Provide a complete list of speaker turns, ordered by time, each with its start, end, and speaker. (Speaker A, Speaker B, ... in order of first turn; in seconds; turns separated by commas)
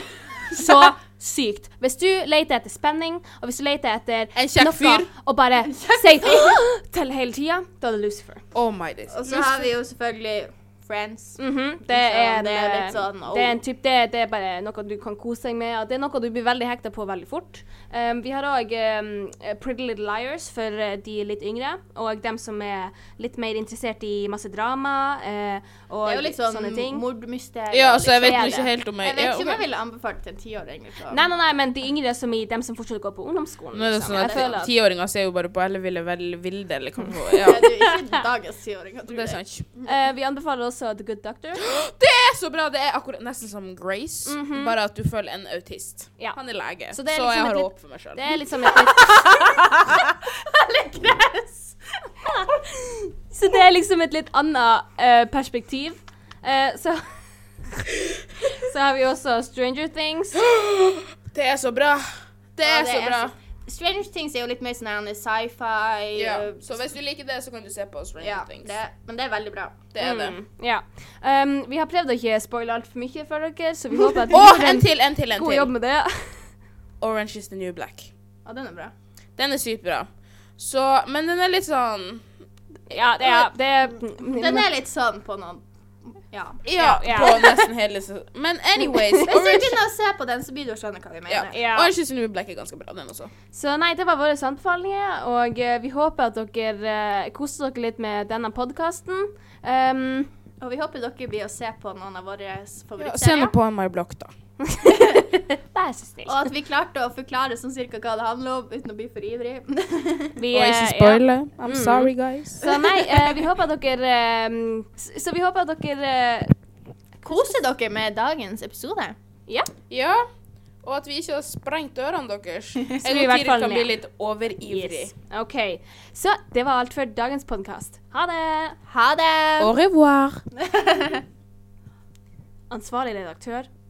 Speaker A: 0.5-0.8, Speaker B: 0.5-8.4, Speaker C: 4.3-5.1, Speaker A: 5.7-6.6, Speaker C: 8.5-9.7, Speaker A: 9.1-13.6, Speaker B: 11.4-27.0, Speaker A: 26.0-31.2, Speaker C: 27.7-29.6, Speaker B: 28.2-28.7, Speaker B: 31.1-34.7, Speaker C: 33.7-37.7, Speaker A: 34.1-34.6, Speaker B: 37.3-37.9, Speaker A: 37.4-39.9, Speaker C: 39.1-39.6, Speaker B: 39.8-41.6, Speaker C: 41.6-48.3, Speaker B: 44.2-44.7, Speaker B: 46.9-49.3, Speaker A: 48.8-52.6, Speaker B: 53.3-57.2, Speaker B: 58.5-60.4, Speaker C: 60.3-63.3, Speaker A: 62.6-66.9, Speaker C: 66.1-68.8, Speaker A: 68.2-69.8, Speaker C: 69.9-70.4, Speaker B: 70.0-76.5, Speaker C: 74.3-75.7, Speaker C: 77.0-78.1, Speaker A: 78.4-78.9, Speaker C: 79.4-82.2, Speaker B: 82.9-84.7, Speaker C: 83.2-83.5, Speaker A: 84.2-87.7, Speaker C: 86.6-89.8, Speaker B: 86.8-87.6, Speaker B: 88.8-89.5, Speaker A: 89.2-91.6, Speaker C: 91.3-93.3, Speaker B: 91.5-91.9, Speaker B: 93.5-100.3, Speaker A: 100.6-103.5, Speaker C: 103.0-104.3, Speaker B: 104.7-106.4, Speaker A: 104.9-105.2, Speaker A: 106.2-110.4, Speaker B: 110.3-116.5, Speaker C: 110.5-112.6, Speaker A: 112.6-113.4, Speaker B: 117.2-117.6, Speaker A: 117.3-119.2, Speaker C: 119.9-120.3, Speaker C: 120.8-125.1, Speaker B: 123.0-123.9, Speaker B: 124.7-128.8, Speaker A: 128.9-129.7, Speaker C: 129.6-130.4, Speaker A: 130.6-131.2, Speaker B: 132.7-133.7